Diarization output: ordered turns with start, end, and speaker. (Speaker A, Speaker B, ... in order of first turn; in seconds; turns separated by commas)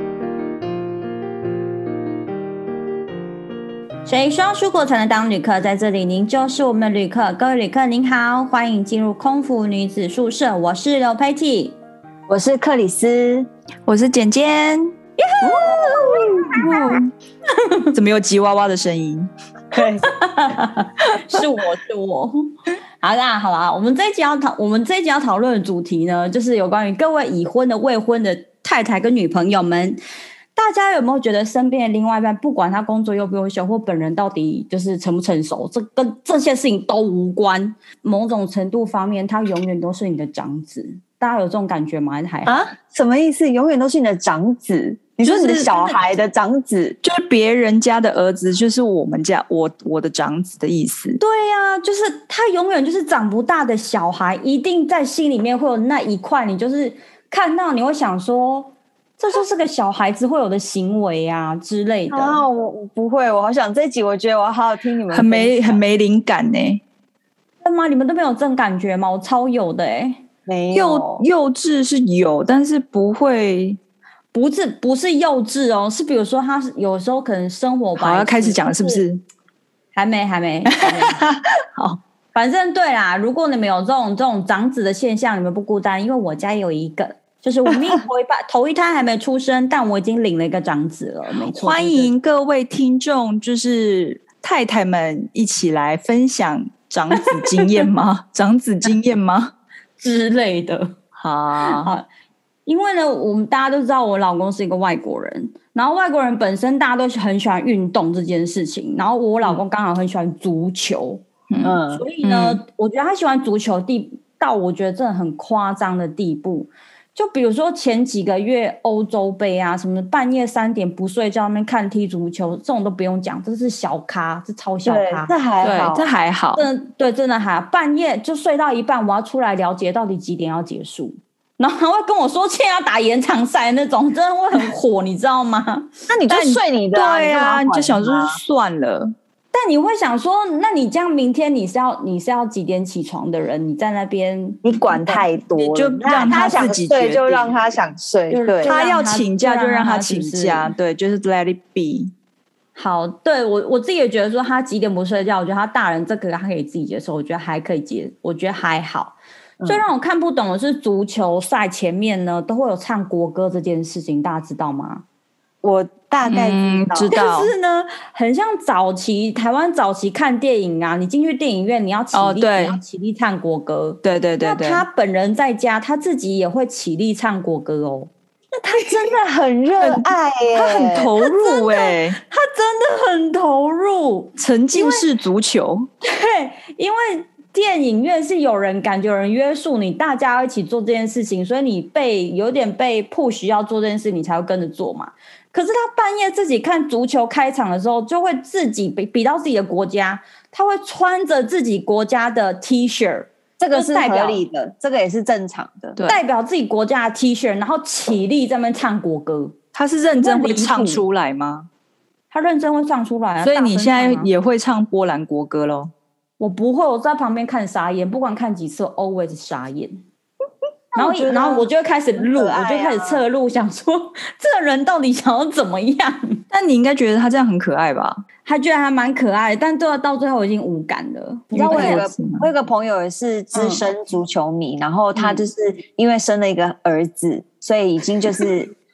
Speaker A: 4.0-11.8, Speaker B: 12.3-13.5, Speaker C: 13.8-14.9, Speaker A: 15.2-17.9, Speaker B: 15.4-16.9, Speaker C: 16.6-17.0, Speaker C: 17.9-19.3, Speaker B: 19.7-20.1, Speaker A: 19.7-22.5, Speaker A: 23.0-30.0, Speaker A: 30.6-42.6, Speaker B: 42.4-47.0, Speaker C: 45.2-45.9, Speaker C: 47.0-51.2, Speaker A: 51.2-62.4, Speaker B: 62.1-65.8, Speaker C: 65.1-66.8, Speaker A: 67.6-70.2, Speaker B: 70.5-71.2, Speaker C: 70.7-73.8, Speaker A: 74.3-79.0, Speaker C: 78.0-79.2, Speaker A: 79.9-81.2, Speaker C: 80.8-82.0, Speaker A: 82.3-92.1, Speaker C: 91.5-99.5, Speaker A: 97.2-97.7, Speaker A: 100.0-101.0, Speaker C: 101.2-101.9, Speaker A: 101.6-102.0, Speaker A: 102.7-111.2, Speaker C: 111.5-112.6, Speaker B: 111.6-112.0, Speaker A: 111.9-125.3, Speaker B: 124.8-126.1, Speaker C: 125.6-126.7, Speaker A: 126.5-135.9, Speaker B: 136.1-138.4, Speaker C: 136.3-139.1, Speaker A: 139.5-145.3, Speaker B: 144.6-148.8, Speaker C: 145.6-147.5, Speaker A: 146.0-146.7, Speaker A: 148.3-150.7, Speaker C: 148.6-152.1, Speaker A: 152.8-165.0, Speaker B: 159.6-159.8, Speaker B: 165.6-167.1, Speaker C: 166.2-167.5, Speaker A: 167.1-178.1, Speaker C: 172.1-172.8, Speaker C: 174.0-174.8, Speaker B: 178.6-181.1, Speaker C: 179.8-182.2, Speaker A: 181.2-185.1, Speaker C: 184.4-185.9, Speaker A: 186.0-204.4, Speaker B: 203.6-206.0, Speaker C: 205.9-206.2, Speaker A: 206.0-209.6, Speaker C: 209.7-211.7, Speaker A: 210.2-211.0, Speaker A: 212.3-214.3, Speaker C: 213.4-215.9, Speaker A: 216.4-220.0, Speaker B: 220.9-223.2, Speaker A: 220.9-226.4, Speaker C: 226.5-228.2, Speaker A: 228.4-232.0, Speaker C: 231.5-232.5, Speaker B: 231.5-238.7, Speaker A: 233.5-233.8